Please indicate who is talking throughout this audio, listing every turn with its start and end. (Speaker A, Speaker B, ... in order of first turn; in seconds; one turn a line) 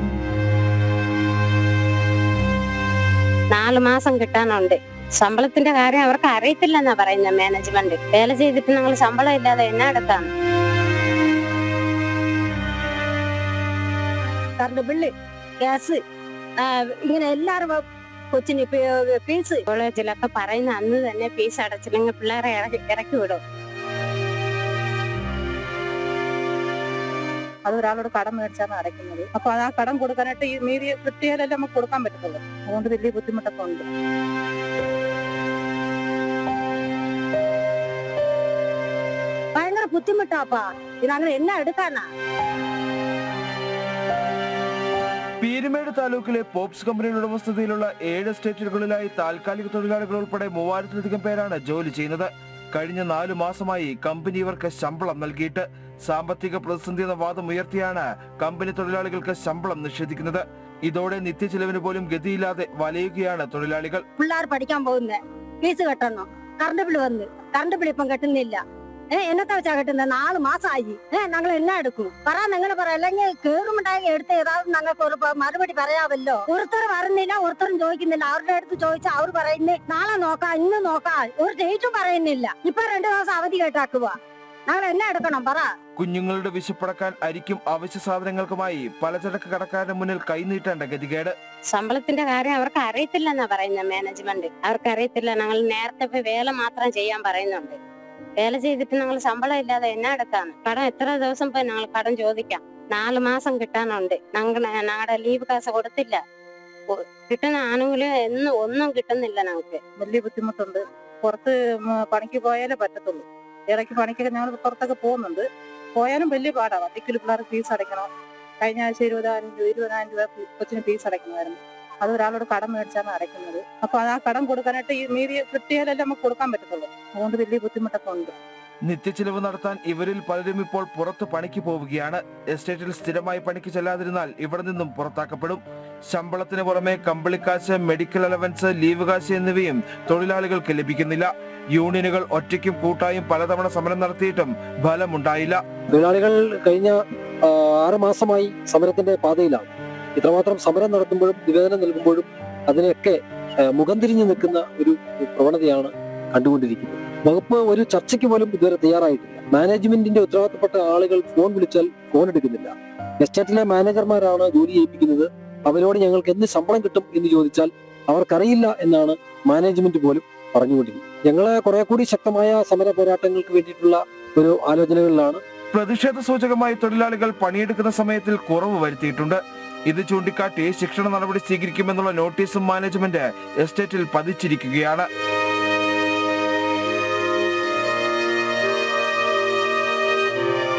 Speaker A: 3.5-10.3
Speaker B: 14.6-15.1
Speaker B: 15.6-16.0
Speaker B: 16.6-19.6
Speaker A: 19.7-23.4
Speaker C: 27.7-33.9
Speaker B: 39.5-42.0
Speaker D: 45.4-64.0
Speaker B: 64.2-68.6
Speaker B: 69.1-84.2
Speaker B: 84.7-85.7
Speaker D: 86.0-91.3
Speaker A: 91.7-97.8
Speaker A: 98.4-106.2
Speaker A: 106.9-109.8
Speaker C: 110.0-115.5
Speaker C: 116.0-118.1
Speaker C: 118.6-128.3
Speaker D: 128.9-145.6
Speaker E: 145.9-175.4
Speaker D: 175.7-185.1